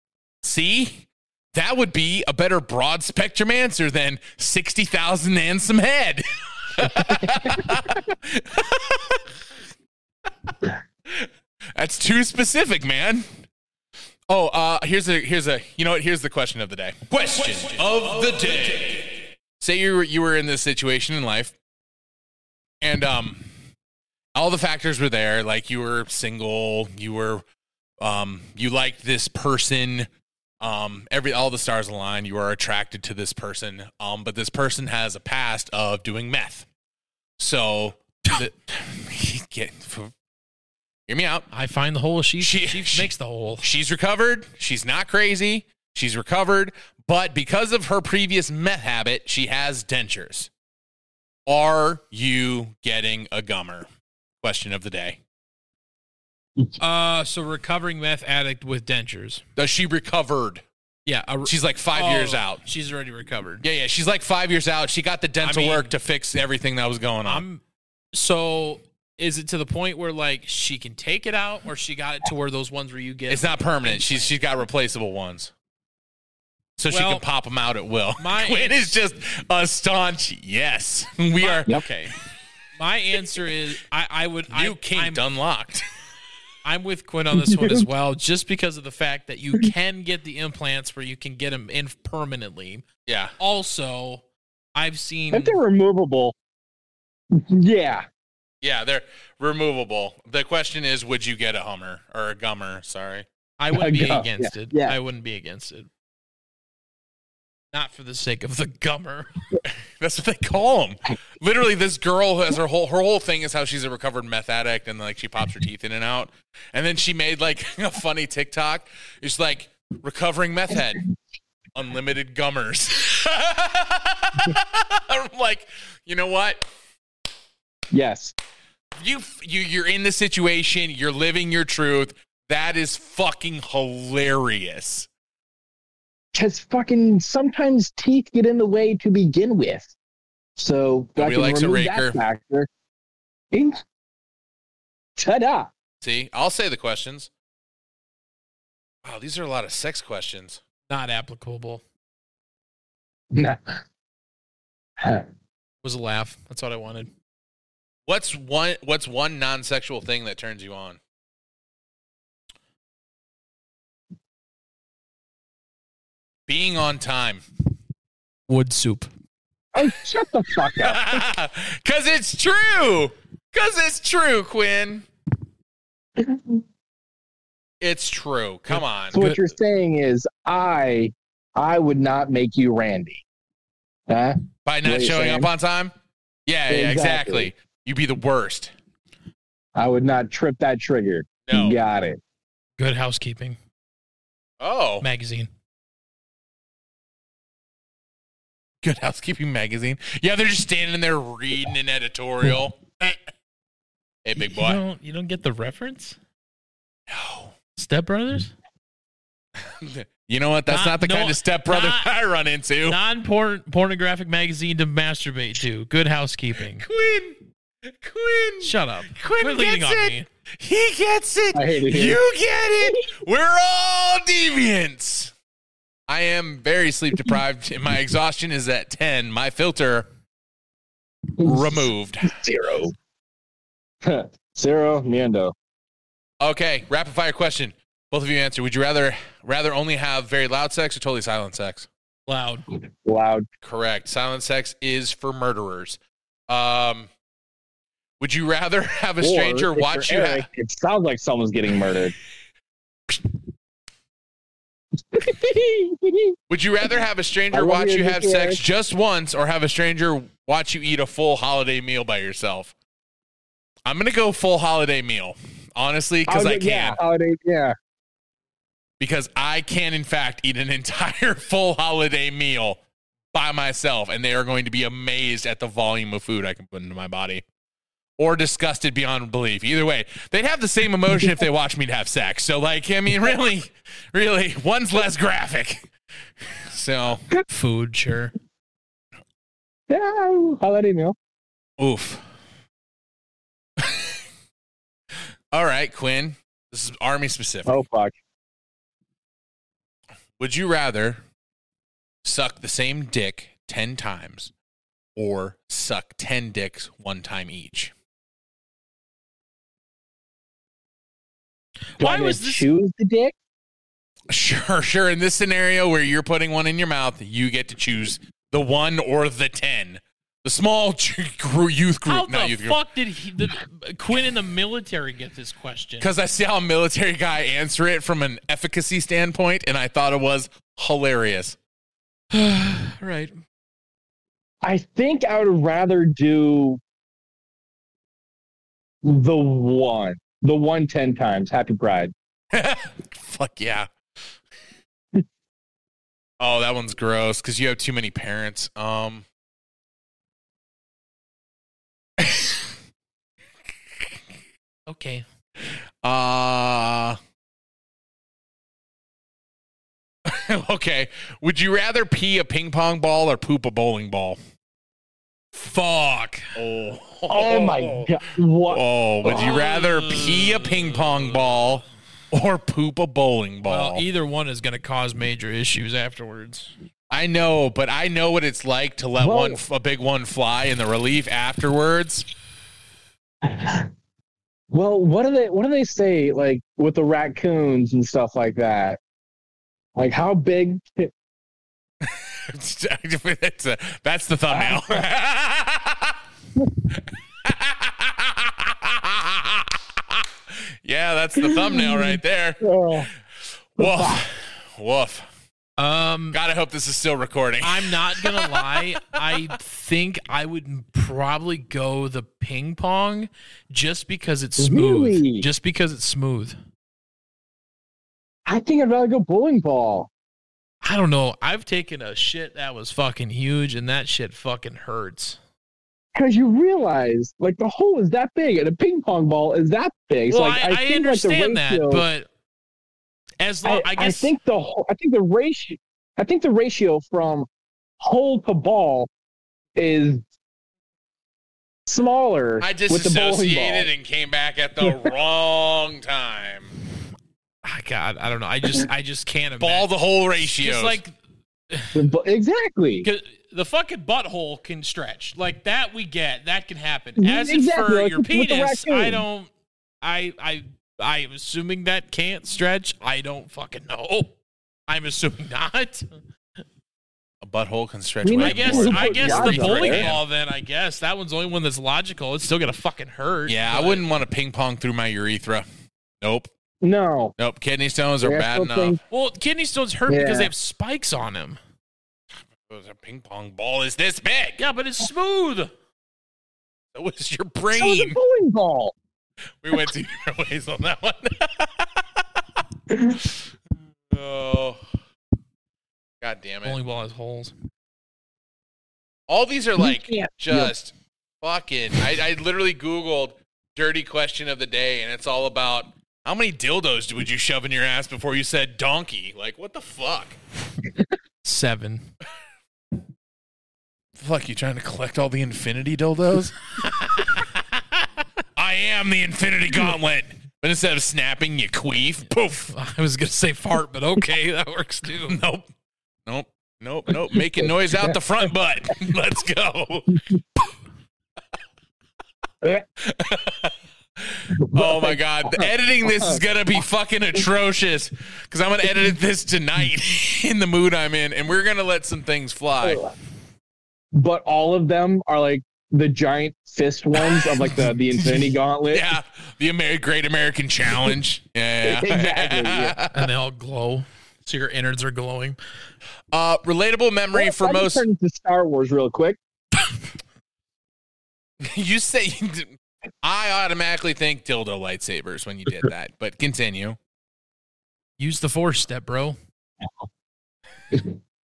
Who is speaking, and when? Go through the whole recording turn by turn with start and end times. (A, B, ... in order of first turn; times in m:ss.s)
0:00.4-0:09.2 A
0:11.1-0:13.3 A
0:14.3-0:21.5 A
0:22.8-0:23.5 A
0:24.3-0:27.4 A
0:28.0-0:30.1 A
0:30.6-0:36.6 A
0:37.4-0:40.1 A
0:41.1-0:41.5 A
0:41.5-0:43.6 B
0:42.4-0:50.5 A
0:51.4-0:53.9 A
0:54.4-0:55.2 A
0:56.8-0:59.4 B
0:59.6-1:00.6 A
1:01.0-1:03.6 B
1:01.4-1:02.6 A
1:03.6-1:07.4 A
1:05.4-1:05.9 B
1:07.2-1:07.6 B
1:08.1-1:14.4 B
1:13.3-1:15.5 A
1:16.8-1:21.8 A
1:16.9-1:17.2 B
1:18.2-1:18.9 B
1:21.4-1:22.1 B
1:22.8-1:25.2 B
1:24.5-1:25.8 A
1:26.6-1:32.8 B
1:27.3-1:27.9 C
1:33.0-1:33.3 A
1:33.4-1:34.2 B
1:34.7-1:35.6 B
1:35.3-1:36.3 C
1:37.3-1:38.1 C
1:38.6-1:43.2 A
1:43.6-1:45.9 B
1:43.7-1:45.0 C
1:47.7-1:49.3 B
1:49.6-2:01.0 A
2:01.7-2:06.7 A
2:07.9-2:08.3 C
2:09.0-2:15.1 A
2:16.3-2:19.9 C
2:20.6-2:22.7 C
2:21.2-2:22.2 A
2:23.5-2:23.8 C
2:25.2-2:25.7 C
2:26.0-2:27.3 A
2:29.0-2:30.6 A
2:30.9-2:31.8 B
2:33.3-2:33.8 C
2:35.0-2:35.2 C
2:35.8-2:37.1 B
2:38.1-2:41.0 A
2:46.5-2:47.4 A
2:48.5-2:49.1 B
2:49.7-2:51.2 C
2:50.8-2:55.1 A
2:56.2-2:56.5 C
2:57.8-2:59.2 A
2:58.7-2:59.4 B
2:59.1-3:03.2 C
3:04.1-3:05.5 C
3:04.6-3:05.9 A
3:06.5-3:08.7 A
3:06.7-3:07.5 C
3:09.8-3:12.2 C
3:11.4-3:11.8 A
3:12.8-3:13.6 B
3:14.6-3:15.0 A
3:15.0-3:15.5 B
3:18.8-3:23.2 A
3:24.2-3:24.8 A
3:24.4-3:26.2 B
3:27.1-3:27.5 A
3:27.8-3:28.5 B
3:29.6-3:33.0 A
3:30.7-3:32.1 B
3:32.8-3:36.8 B
3:36.8-3:45.3 A
3:38.6-3:40.3 B
3:41.5-3:42.2 C
3:46.1-3:50.1 A
3:51.4-3:52.9 C
3:51.4-3:52.3 A
3:54.0-3:55.5 C
3:56.4-4:01.9 A
4:02.3-4:02.6 B
4:02.8-4:03.4 C
4:03.6-4:07.1 A
4:08.2-4:10.5 A
4:09.2-4:12.1 C
4:15.1-4:16.3 C
4:16.5-4:22.7 A
4:17.5-4:18.6 C
4:23.8-4:27.0 A
4:26.3-4:27.7 C
4:29.0-4:32.8 A
4:33.3-4:37.4 A
4:38.2-4:45.9 A
4:46.4-4:47.3 A
4:47.5-4:48.3 B
4:49.9-4:51.2 C
4:51.8-4:52.2 A
4:53.8-4:54.2 A
4:55.5-4:57.8 A
4:57.6-4:58.1 C
5:00.4-5:01.2 A
5:02.2-5:04.5 A
5:05.2-5:07.9 A
5:12.0-5:12.6 B
5:12.0-5:13.3 C
5:14.3-5:22.8 A
5:22.1-5:26.1 B
5:26.0-5:31.6 A
5:32.3-5:33.3 B
5:34.6-5:36.8 C
5:39.0-5:42.1 C
5:42.5-5:43.9 A
5:46.4-5:49.2 A
5:52.2-5:52.6 A
5:54.9-5:55.2 B
5:56.0-5:57.2 A
6:00.2-6:04.4 A
6:05.5-6:06.5 B
6:06.5-6:08.1 A
6:07.3-6:09.4 C
6:08.7-6:14.0 A
6:09.2-6:11.7 B
6:13.6-6:16.7 B
6:17.1-6:22.3 A
6:19.2-6:19.6 C
6:23.4-6:23.9 C
6:24.7-6:29.0 C
6:30.0-6:31.1 C
6:32.0-6:36.2 A
6:34.5-6:35.0 C
6:37.4-6:43.1 A
6:41.4-6:43.1 C
6:43.7-6:45.3 A
6:43.8-6:44.2 C
6:45.8-6:46.4 B
6:46.3-6:49.2 A
6:47.6-6:56.6 B
6:54.6-6:55.5 C
6:58.4-7:00.1 C
7:00.8-7:05.4 B
7:06.1-7:12.0 C
7:10.3-7:12.3 B
7:13.4-7:14.3 B
7:13.6-7:17.5 C
7:18.0-7:19.1 C
7:19.8-7:20.2 C
7:21.9-7:23.9 C
7:22.6-7:26.7 A
7:24.8-7:25.1 C
7:27.6-7:31.1 B
7:29.6-7:31.0 A
7:31.7-7:32.0 B
7:31.9-7:33.1 C
7:33.0-7:39.5 B
7:37.2-7:39.2 C
7:40.0-7:44.4 B
7:44.9-7:46.1 B
7:47.4-7:50.2 A
7:48.2-7:50.1 C
7:48.4-7:54.1 B
7:53.5-7:55.6 A
7:56.2-7:56.5 A
7:56.8-7:57.3 C
7:57.4-7:59.0 A
7:58.2-7:59.0 C
7:59.1-8:01.6 B
8:00.1-8:00.5 C
8:02.7-8:04.6 A
8:04.6-8:05.7 B
8:06.9-8:08.2 A
8:07.7-8:08.9 C
8:09.6-8:12.2 A
8:14.1-8:14.8 A
8:16.2-8:16.8 A
8:16.6-8:17.5 B
8:19.3-8:30.4 A
8:19.8-8:20.7 C
8:31.4-8:32.1 B
8:34.2-8:36.6 A
8:38.6-8:42.7 A
8:42.7-8:45.4 B
8:45.3-8:45.7 A
8:46.2-8:50.2 A
8:53.0-9:03.0 A
8:54.6-8:56.4 C
9:02.8-9:03.1 C
9:04.1-9:09.1 C
9:07.2-9:13.2 A
9:11.8-9:13.0 C
9:13.1-9:15.6 B
9:16.3-9:18.0 A
9:17.3-9:19.4 C
9:21.6-9:27.0 A
9:28.2-9:29.4 B